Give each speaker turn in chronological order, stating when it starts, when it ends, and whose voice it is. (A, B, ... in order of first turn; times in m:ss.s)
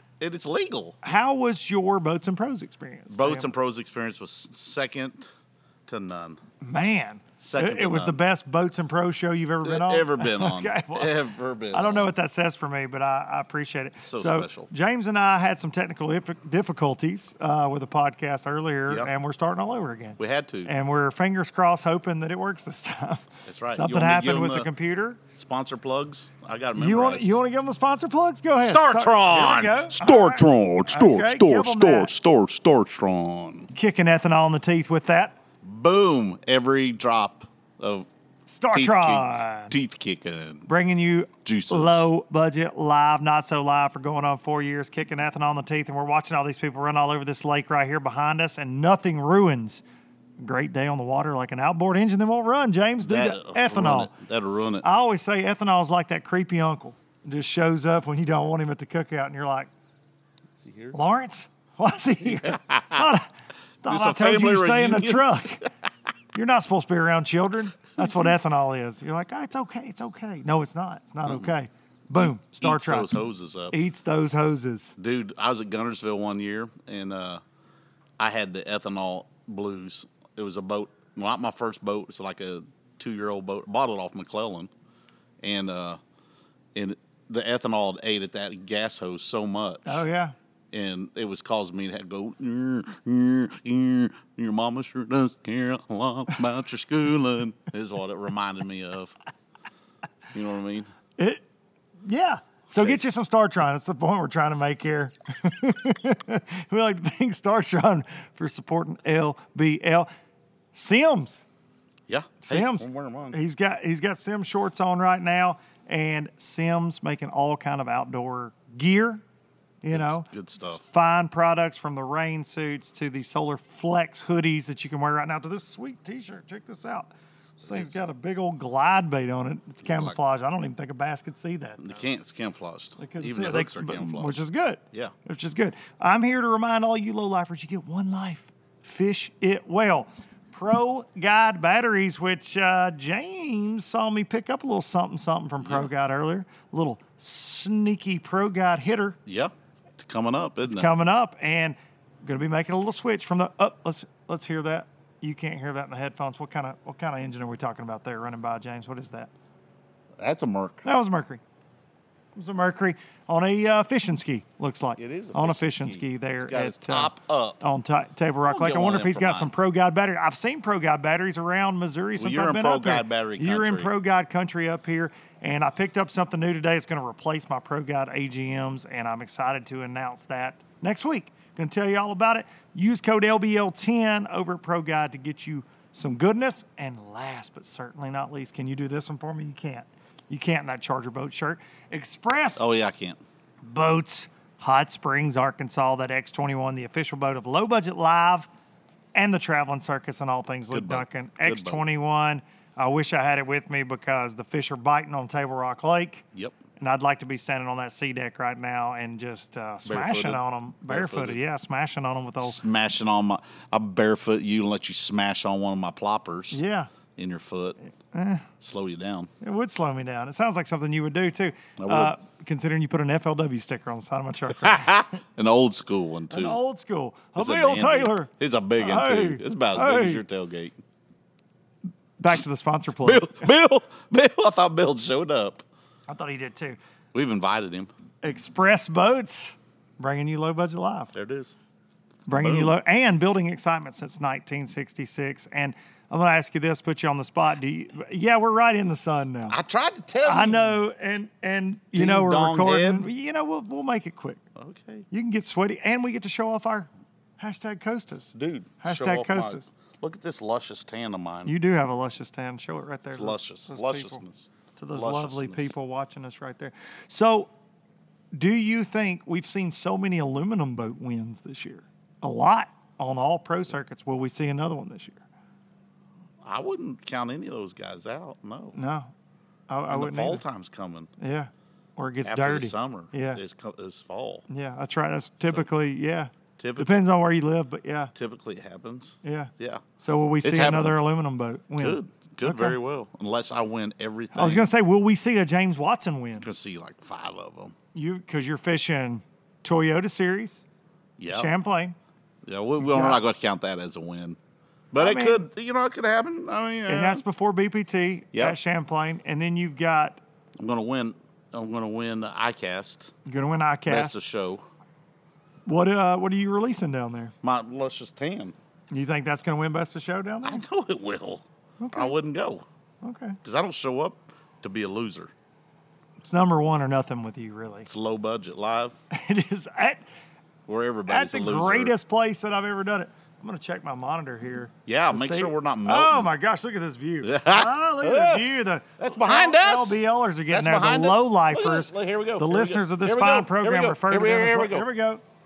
0:00.2-0:01.0 A
0:01.0-0:03.5 B
0:03.1-0:05.3 A
0:05.9-0:06.4 A
0:06.6-0:11.1 B
0:07.4-0:08.2 A
0:09.6-0:12.1 A
0:11.7-0:25.2 B
0:14.0-0:14.7 A
0:20.2-0:20.7 A
0:23.5-0:24.7 A
0:25.3-0:27.4 A
0:26.8-0:32.1 B
0:28.6-0:33.7 A
0:33.7-0:35.4 B
0:35.6-0:38.1 A
0:38.5-0:39.7 B
0:38.7-0:40.7 A
0:40.7-0:49.8 B
0:41.4-0:42.1 A
0:50.4-0:54.1 B
0:53.0-0:54.8 A
0:54.8-0:59.7 B
1:00.6-1:01.0 A
1:00.9-1:03.3 B
1:02.2-1:03.1 A
1:03.8-1:05.6 B
1:03.8-1:05.2 A
1:06.3-1:13.1 B
1:12.6-1:13.8 A
1:13.7-1:14.9 B
1:15.0-1:17.4 A
1:18.2-1:24.7 A
1:25.4-1:26.0 A
1:26.7-1:30.0 A
1:29.8-1:30.3 B
1:30.7-1:39.1 A
1:40.3-1:40.9 A
1:41.2-1:41.4 B
1:42.0-1:50.1 B
1:50.7-1:51.4 B
1:52.1-1:53.4 A
1:52.4-1:59.2 B
1:59.8-2:11.8 B
1:59.9-2:00.8 A
2:07.6-2:07.9 A
2:09.8-2:10.2 A
2:11.8-2:14.4 A
2:13.0-2:29.2 B
2:25.6-2:25.9 A
2:29.3-2:30.9 A
2:30.6-2:39.3 B
2:40.2-2:40.8 A
2:40.8-2:41.4 B
2:42.4-3:12.7 B
2:45.0-2:47.6 A
2:48.5-2:49.5 A
2:52.2-2:53.9 A
3:12.6-3:13.2 A
3:13.6-3:18.5 B
3:19.1-3:26.2 B
3:20.7-3:21.8 A
3:26.8-3:32.6 B
3:29.8-3:31.4 A
3:32.4-3:36.6 A
3:36.5-3:36.9 B
3:37.2-3:37.8 A
3:38.1-3:38.4 B
3:38.6-3:39.3 A
3:39.4-3:45.2 B
3:41.8-3:42.1 A
3:44.6-3:46.6 A
3:46.3-3:50.2 B
3:47.4-3:50.7 A
3:52.2-3:53.5 B
3:53.0-3:55.6 A
3:56.1-3:56.8 B
3:57.1-3:57.9 A
3:58.2-4:01.1 B
4:01.1-4:01.5 A
4:02.3-4:09.6 B
4:02.4-4:02.7 A
4:09.5-4:10.8 A
4:10.2-4:14.4 B
4:12.0-4:13.1 A
4:14.6-4:15.0 A
4:15.1-4:19.7 B
4:18.3-4:21.5 A
4:21.4-4:24.2 B
4:23.1-4:25.7 A
4:24.8-4:27.5 B
4:28.3-4:35.2 B
4:36.4-4:38.8 A
4:38.7-4:39.1 B
4:39.7-4:40.4 B
4:39.9-4:41.1 A
4:41.2-4:43.4 B
4:42.2-4:44.4 A
4:44.5-4:48.1 B
4:46.6-4:47.0 A
4:48.1-4:49.8 A
4:49.2-4:52.8 B
4:50.4-4:51.0 A
4:51.8-4:54.7 A
4:54.3-4:56.5 B
4:56.4-4:57.7 A
4:57.9-5:00.6 B
5:01.2-5:01.5 A
5:01.3-5:02.0 B
5:02.4-5:04.4 A
5:02.8-5:03.2 B
5:04.9-5:07.2 A
5:05.0-5:05.4 B
5:06.9-5:10.2 B
5:10.6-5:13.1 A
5:13.2-5:14.1 B
5:13.9-5:14.6 A
5:15.6-5:17.3 B
5:17.4-5:18.5 A
5:18.9-5:20.6 B
5:20.4-5:22.6 A
5:21.8-5:22.1 B
5:23.0-5:23.4 B
5:23.4-5:25.3 A
5:26.2-5:27.9 B
5:27.9-5:29.0 A
5:29.1-5:30.0 B
5:30.7-5:31.9 A
5:31.1-5:45.2 B
5:34.8-5:36.3 A
5:37.2-5:38.4 A
5:39.0-5:44.9 A